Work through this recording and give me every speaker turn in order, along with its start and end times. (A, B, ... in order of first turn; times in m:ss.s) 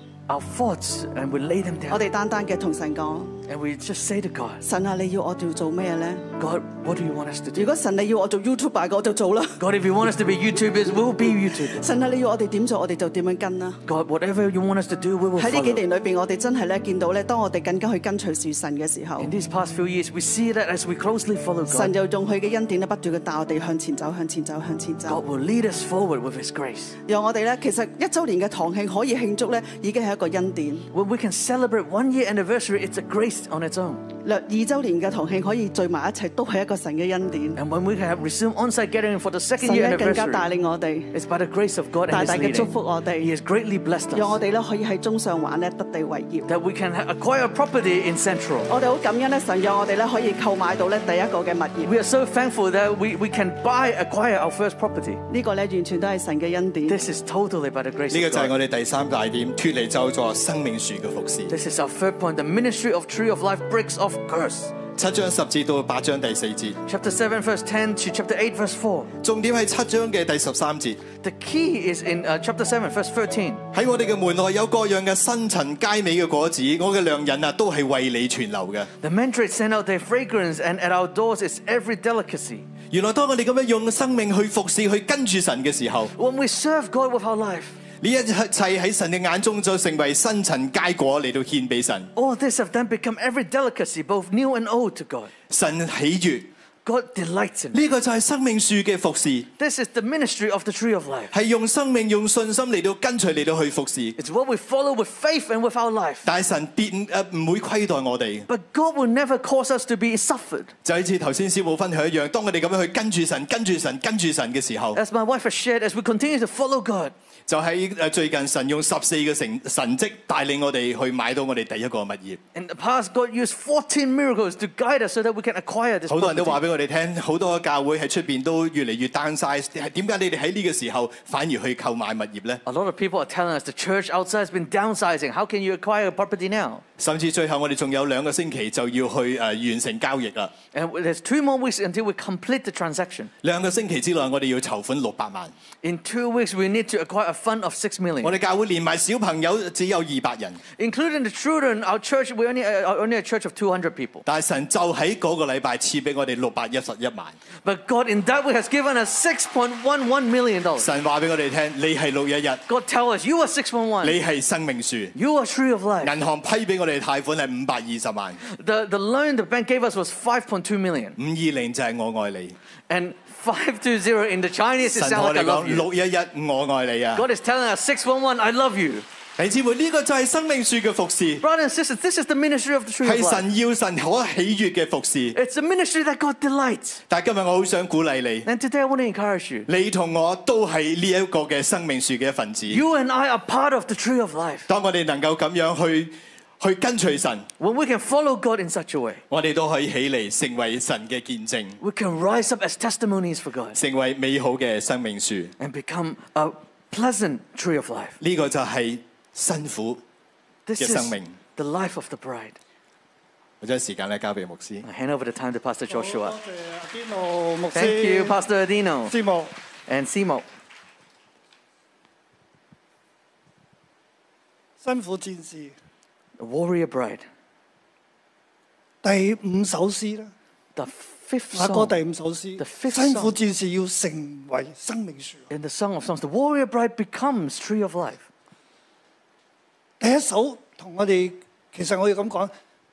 0:00.3-0:02.0 A
0:01.9-0:03.3 B
0:03.5-0:04.6 A
0:04.6-0:06.2 B
0:06.4-0:07.8 A
0:07.6-0:09.6 B
0:09.6-0:11.8 A
0:11.7-0:13.8 B
0:13.9-0:15.8 A
0:15.4-0:19.3 B
0:19.2-0:21.9 A
0:21.7-0:25.2 B
0:25.1-0:27.0 A
0:27.1-0:30.9 B
0:30.9-0:34.0 A
0:34.2-0:37.6 B
0:37.6-0:40.5 A
0:39.6-0:41.1 B
0:41.1-0:44.4 A
0:42.1-0:43.3 B
0:44.1-0:46.5 B
0:46.5-0:48.7 A
0:48.7-0:51.9 B
0:51.8-0:55.2 A
0:55.3-0:57.0 B
0:56.9-0:58.5 A
0:58.1-1:01.5 C
1:01.5-1:04.7 A
1:05.0-1:06.8 C
1:06.9-1:09.1 A
1:09.2-1:11.0 C
1:11.2-1:13.6 A
1:13.7-1:18.9 C
1:19.0-1:22.7 A
1:22.9-1:26.1 C
1:26.2-1:27.8 A
1:28.0-1:32.1 C
1:32.1-1:35.3 A
1:35.5-1:36.5 C
1:36.8-1:37.8 A
1:37.7-1:39.5 C
1:39.6-1:41.3 A
1:41.3-1:44.2 C
1:44.2-1:46.3 A
1:46.2-1:48.5 C
1:48.5-1:50.7 A
1:50.8-1:55.0 C
1:55.0-1:57.1 A
1:57.5-2:02.4 C
2:02.5-2:06.6 A
2:06.1-2:12.6 C
2:12.7-2:16.8 A
2:17.0-2:20.5 C
2:20.7-2:23.3 A
2:23.4-2:25.5 C
2:25.8-2:28.4 A
2:28.2-2:30.6 C
2:30.8-2:34.2 A
2:34.3-2:37.4 C
2:37.6-2:40.9 A
2:40.8-2:42.6 C
2:42.7-2:44.2 A
2:44.0-2:45.1 C
2:45.1-2:46.1 A
2:46.0-2:48.4 C
2:48.4-2:51.2 A
2:51.2-2:52.6 C
2:52.9-2:55.9 A
2:54.8-2:57.3 C
2:57.1-2:59.1 A
2:59.4-3:01.4 C
3:01.4-3:03.4 A
3:03.0-3:05.4 C
3:05.3-3:07.0 A
3:07.1-3:08.5 C
3:08.4-3:09.7 A
3:09.7-3:12.8 C
3:12.7-3:14.7 A
3:14.7-3:17.5 C
3:17.6-3:19.2 A
3:19.3-3:21.8 C
3:21.8-3:23.8 A
3:23.8-3:25.5 C
3:25.6-3:28.2 A
3:28.2-3:30.0 C
3:30.7-3:32.6 A
3:30.8-3:31.4 C
3:33.6-3:34.8 C
3:34.8-3:36.4 A
3:35.9-3:38.4 D
3:37.7-3:39.2 A
3:39.1-3:39.5 D
3:39.9-3:40.5 A
3:44.8-3:45.7 D
3:46.4-3:47.3 A
3:49.0-3:50.3 D
3:50.8-3:52.0 A
3:51.5-3:55.4 D
3:52.6-3:53.4 A
3:55.5-3:58.3 A
4:00.0-4:02.5 D